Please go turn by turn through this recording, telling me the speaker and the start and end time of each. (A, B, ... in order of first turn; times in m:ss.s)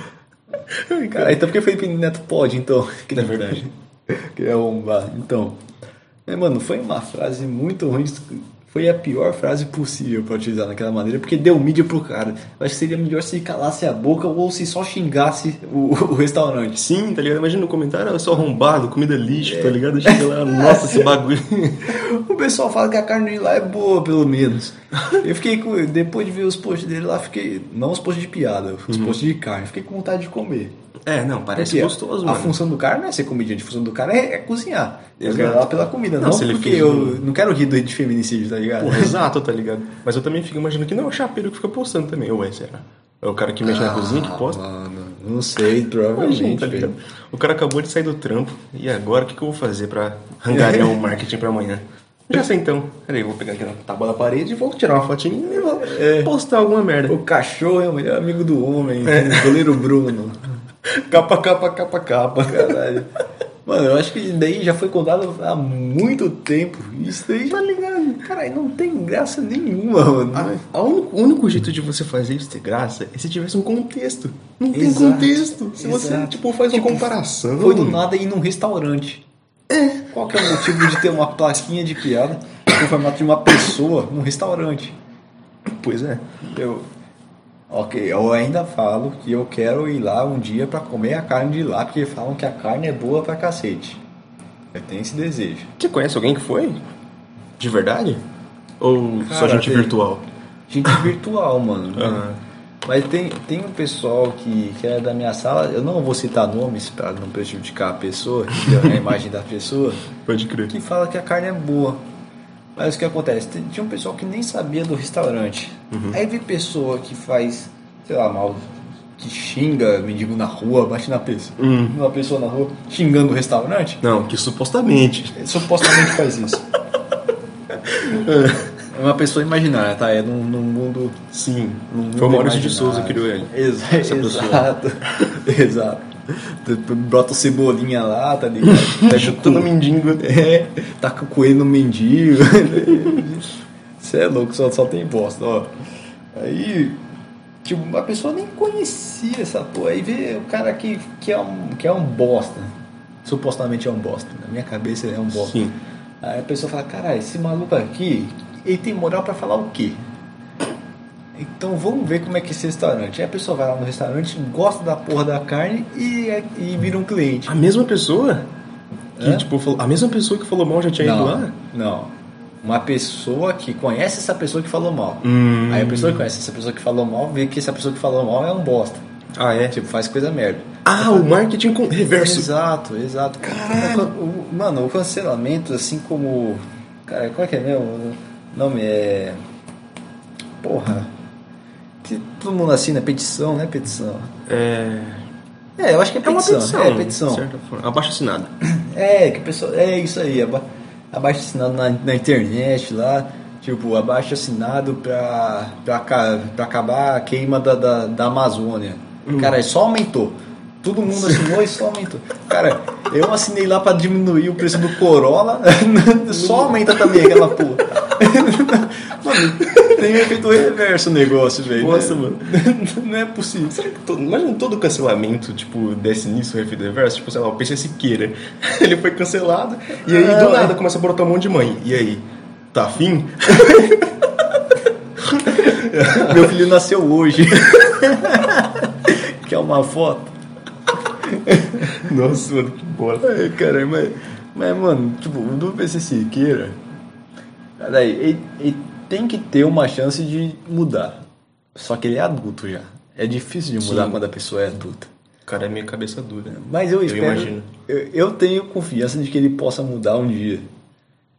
0:00.7-0:01.4 A
0:01.1-0:05.6 B
0:03.1-0:03.7 A
0:06.3-0:16.8 B
0:16.8-0:22.0 A
0:19.4-0:21.2 B
0:21.8-0:30.7 B
0:28.9-0:29.2 A
0:31.0-0:32.6 A
0:31.6-0:39.2 B
0:35.2-0:37.2 A
0:38.8-0:44.6 A
0:43.6-0:46.9 B
0:46.1-0:57.2 A
0:50.6-0:50.9 B
0:55.8-0:56.3 B
0:57.1-1:00.4 B
0:59.0-0:59.7 A
1:00.8-1:02.9 A
1:02.5-1:03.1 B
1:03.6-1:07.6 B
1:07.5-1:08.3 A
1:08.2-1:10.6 B
1:10.3-1:18.0 A
1:14.7-1:19.2 B
1:19.7-1:21.0 A
1:20.1-1:25.0 B
1:25.6-1:26.2 A
1:26.4-1:26.8 B
1:27.7-1:34.0 B
1:34.7-1:35.7 B
1:35.8-1:36.8 A
1:37.6-1:38.2 A
1:38.8-1:40.2 A
1:39.2-1:40.0 B
1:40.7-1:42.2 B
1:42.0-1:42.4 A
1:42.8-1:50.0 B
1:48.6-1:49.0 A
1:50.2-1:50.7 A
1:50.7-1:52.0 B
1:52.8-2:04.0 B
1:55.9-1:56.2 A
2:01.6-2:02.0 A
2:04.0-2:06.2 A
2:05.3-2:06.7 B
2:07.9-2:08.7 A
2:08.9-2:11.2 B
2:11.3-2:15.3 A
2:11.9-2:25.7 B
2:18.6-2:20.3 A
2:22.9-2:23.2 A
2:26.3-2:27.0 B
2:27.6-2:32.7 B
2:33.2-2:35.6 B
2:35.3-2:35.8 A
2:36.2-2:40.0 B
2:41.4-2:47.5 B
2:47.5-2:48.5 A
2:49.2-2:51.5 A
2:49.2-2:49.5 B
2:51.0-2:52.1 B
2:52.6-2:59.0 B
2:55.2-2:56.3 A
2:59.3-2:59.8 A
2:59.7-3:01.4 B
3:00.8-3:02.5 A
3:02.1-3:09.4 B
3:03.4-3:04.1 A
3:10.6-3:11.1 B
3:12.0-3:14.3 B
3:14.4-3:15.2 A
3:15.8-3:17.4 B
3:16.2-3:18.5 A
3:18.6-3:43.8 B
3:29.2-3:29.6 A
3:31.1-3:31.5 A
3:36.3-3:37.7 A
3:39.6-3:40.1 A
3:41.7-3:42.5 A
3:43.7-3:54.1 A
3:50.0-3:50.8 B
3:55.2-3:56.6 A
3:55.5-4:00.3 B
4:01.2-4:02.1 B
4:01.9-4:03.3 A
4:03.2-4:06.8 B
4:07.8-4:15.1 B
4:13.8-4:14.2 A
4:15.4-4:17.7 A
4:16.5-4:20.6 B